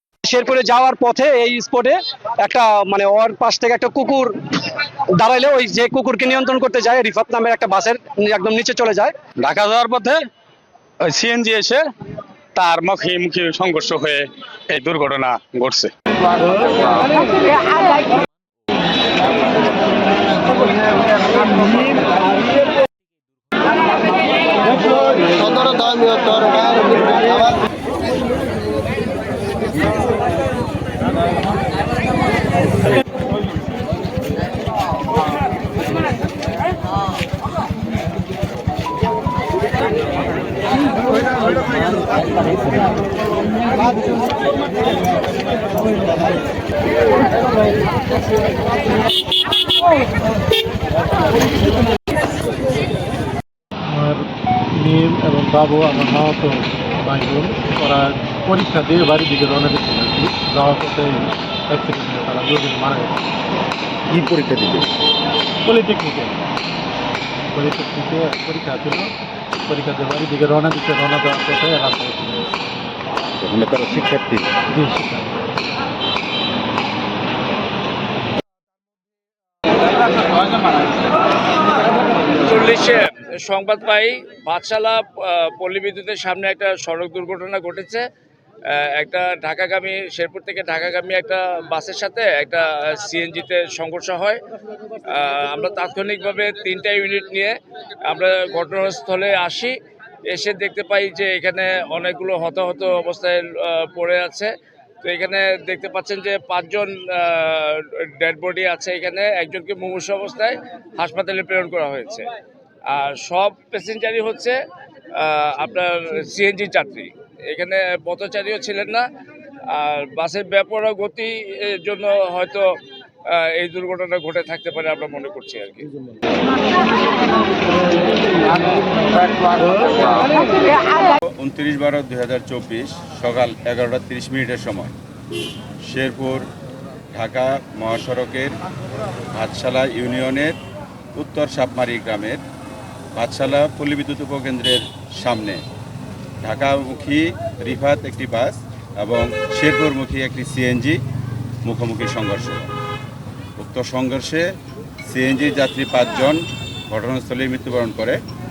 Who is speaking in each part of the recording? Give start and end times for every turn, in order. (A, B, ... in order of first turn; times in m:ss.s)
0:00.2-0:09.3 A
0:09.4-0:10.2 B
0:11.0-0:11.8 B
0:12.5-0:15.9 B
0:16.4-0:17.1 B
0:25.4-0:27.4 C
0:53.8-1:03.2 D
1:04.1-1:04.9 C
1:05.6-1:06.4 D
1:07.5-1:09.1 D
1:09.6-1:12.5 D
1:13.4-1:14.5 C
1:14.7-1:15.4 D
1:22.4-1:28.0 E
1:28.7-1:34.4 E
1:35.1-1:39.7 E
1:40.3-1:44.5 E
1:45.0-1:52.3 E
1:52.9-1:54.6 E
1:55.2-1:59.0 E
1:59.7-2:02.7 E
2:03.3-2:05.9 E
2:11.3-2:14.9 F
2:15.9-2:16.5 F
2:17.1-2:18.6 F
2:19.3-2:20.6 F
2:21.1-2:22.4 F
2:23.2-2:25.6 F
2:26.4-2:31.0 F
2:31.6-2:32.7 F
2:33.6-2:34.5 F
2:35.0-2:38.2 F